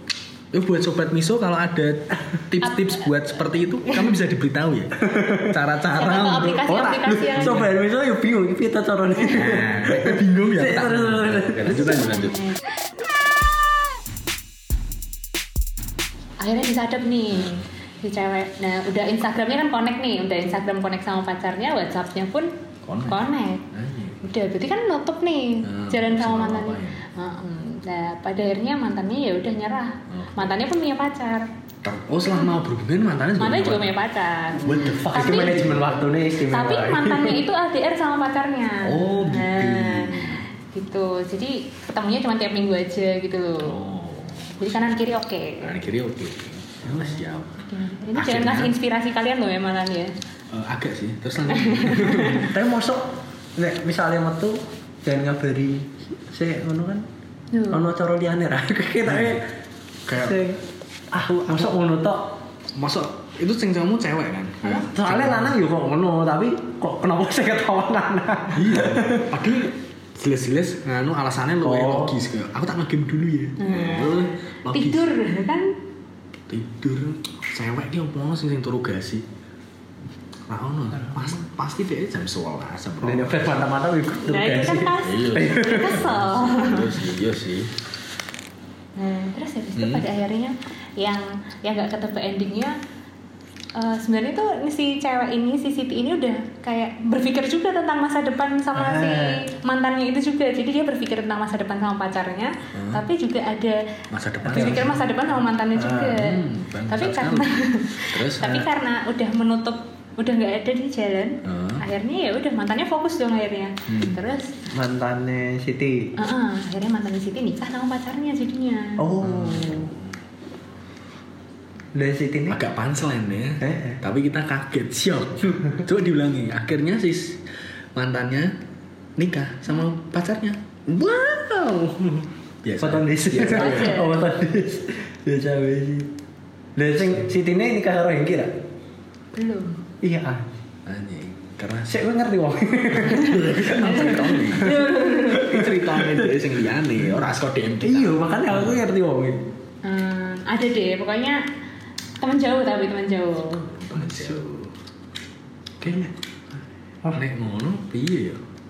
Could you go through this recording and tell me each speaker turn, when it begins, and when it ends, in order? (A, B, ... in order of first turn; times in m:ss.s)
0:00.5-0:06.6 A
0:02.6-0:03.0 B
0:05.0-0:12.1 C
0:05.9-0:07.6 B
0:07.4-0:07.7 A
0:09.3-0:12.4 A
0:12.1-0:12.5 B
0:16.4-0:22.5 B
0:22.8-0:24.2 A
0:23.1-0:23.6 B
0:24.2-0:31.4 B
0:25.6-0:27.0 A
0:30.1-0:30.5 A
0:31.8-0:33.9 A
0:33.4-0:35.6 B
0:34.6-0:35.9 A
0:35.1-0:37.4 C
0:36.5-0:43.8 B
0:38.8-0:40.4 A
0:43.6-0:44.5 A
0:44.6-0:45.8 B
0:45.6-0:47.6 A
0:47.6-0:50.1 B
0:48.1-0:48.7 A
0:50.5-0:52.4 A
0:51.5-0:52.5 B
0:52.4-0:57.0 C
0:57.5-0:57.8 B
0:57.7-0:59.4 C
0:59.0-0:59.4 A
1:00.1-1:00.4 A
1:00.1-1:00.6 C
1:01.1-1:02.4 C
1:01.2-1:01.7 A
1:02.8-1:05.6 A
1:04.6-1:09.3 C
1:08.5-1:15.1 A
1:11.6-1:12.2 C
1:13.6-1:15.8 B
1:16.5-1:19.2 A
1:20.5-1:23.7 A
1:23.0-1:26.0 C
1:24.3-1:26.9 B
1:25.0-1:27.7 A
1:29.0-1:32.8 B
1:29.8-1:30.0 A
1:33.7-1:43.8 B
1:38.7-1:39.4 C
1:42.7-1:43.0 A
1:44.1-1:45.0 A
1:44.4-1:44.9 C
1:44.5-1:54.5 B
1:45.8-1:46.2 C
1:46.1-1:48.6 A
1:51.4-1:51.8 A
1:53.9-1:54.2 A
1:54.7-1:56.1 C
1:56.2-1:59.0 B
1:59.0-1:59.9 C
1:59.2-2:00.1 A
2:01.9-2:02.6 C
2:02.5-2:07.4 A
2:03.6-2:04.0 C
2:08.0-2:08.5 A
2:09.2-2:12.0 A
2:12.6-2:14.0 A
2:12.8-2:16.1 C
2:13.4-2:14.2 B
2:16.8-2:18.5 C
2:19.4-2:19.8 B
2:20.0-2:20.5 C
2:20.9-2:22.0 A
2:21.9-2:26.4 C
2:23.0-2:28.8 A
2:23.8-2:25.6 B
2:27.8-2:29.5 C
2:29.8-2:31.4 B
2:32.2-2:33.6 B
2:33.7-2:34.7 A
2:34.0-2:34.4 C
2:35.8-2:36.1 C
2:37.1-2:38.4 A